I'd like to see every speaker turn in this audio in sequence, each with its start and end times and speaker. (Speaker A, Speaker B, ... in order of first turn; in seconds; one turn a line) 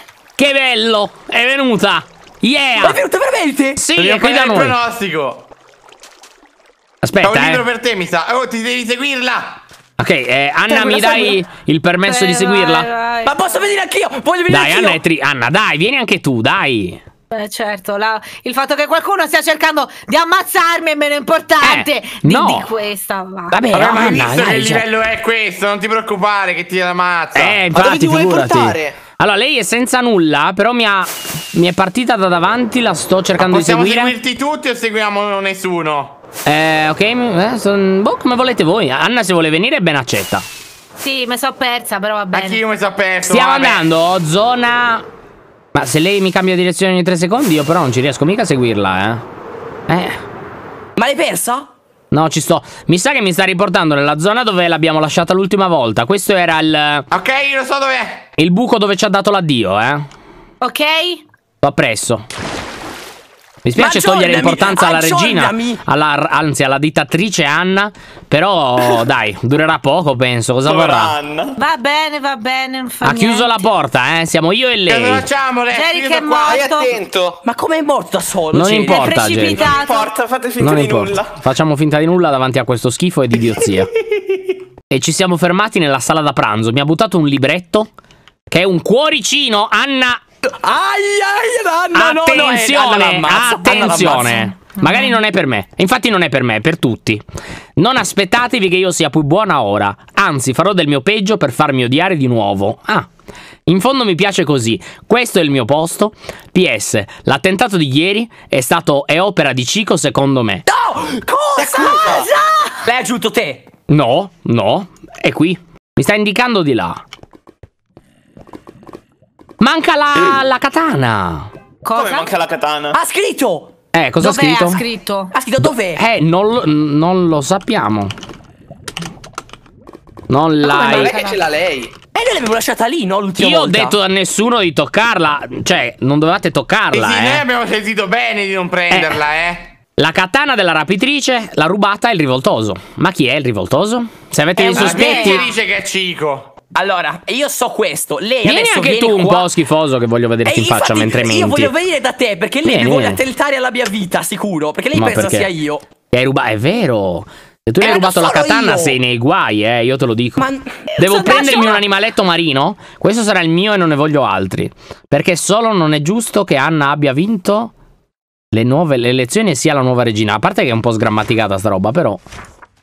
Speaker A: 0.4-3.0
Speaker B: 2.8-3.8
Speaker A: 3.8-4.8
Speaker C: 4.0-5.4
Speaker A: 7.0-7.6
Speaker C: 7.2-9.6
Speaker A: 10.0-12.9
Speaker B: 10.7-11.3
Speaker D: 12.0-13.4
Speaker B: 13.2-15.0
Speaker A: 14.5-17.0
Speaker D: 17.3-23.6
Speaker A: 21.6-22.7
Speaker A: 23.5-24.8
Speaker C: 23.7-27.6
Speaker A: 27.3-34.1
Speaker E: 27.7-28.9
Speaker C: 33.4-36.1
Speaker A: 36.4-40.4
Speaker D: 41.0-42.6
Speaker C: 42.3-43.9
Speaker A: 43.2-45.0
Speaker A: 45.7-49.2
Speaker A: 49.9-50.2
Speaker B: 51.0-51.7
Speaker A: 52.1-57.0
Speaker C: 57.1-58.3
Speaker A: 58.4-60.0
Speaker D: 60.6-61.2
Speaker A: 61.6-62.2
Speaker A: 63.6-71.2
Speaker B: 63.8-65.8
Speaker F: 70.7-71.6
Speaker D: 71.6-73.7
Speaker A: 73.0-75.2
Speaker C: 74.9-76.6
Speaker D: 75.7-77.0
Speaker E: 76.5-77.4
Speaker B: 77.4-79.3
Speaker A: 78.5-79.7
Speaker D: 78.9-80.1
Speaker F: 79.7-81.3
Speaker A: 80.6-83.9
Speaker A: 84.9-87.9
Speaker A: 88.5-90.2
Speaker B: 90.6-94.5
Speaker A: 91.9-97.2
Speaker D: 94.8-95.1
Speaker A: 97.8-103.1
Speaker A: 103.7-110.6
Speaker B: 110.7-113.6
Speaker E: 111.5-112.3
Speaker A: 113.9-117.0
Speaker A: 119.6-121.5
Speaker D: 121.8-122.3
Speaker E: 121.9-122.2
Speaker F: 122.0-123.0
Speaker B: 122.9-123.7
Speaker A: 123.9-124.8
Speaker D: 124.2-125.3
Speaker B: 125.3-126.0
Speaker A: 125.6-128.1
Speaker A: 130.3-131.2
Speaker D: 130.6-131.5
Speaker E: 130.9-131.9
Speaker B: 132.1-133.9
Speaker A: 133.4-137.4
Speaker C: 136.9-139.7
Speaker A: 138.9-139.2
Speaker A: 140.0-145.4
Speaker D: 144.6-145.5
Speaker C: 144.7-146.5
Speaker B: 146.7-149.5
Speaker A: 148.4-151.7
Speaker B: 150.4-155.8
Speaker A: 152.6-153.2
Speaker A: 154.9-155.5
Speaker A: 156.1-167.7
Speaker B: 157.8-159.0
Speaker B: 160.4-160.7
Speaker D: 161.0-161.8
Speaker A: 168.5-172.2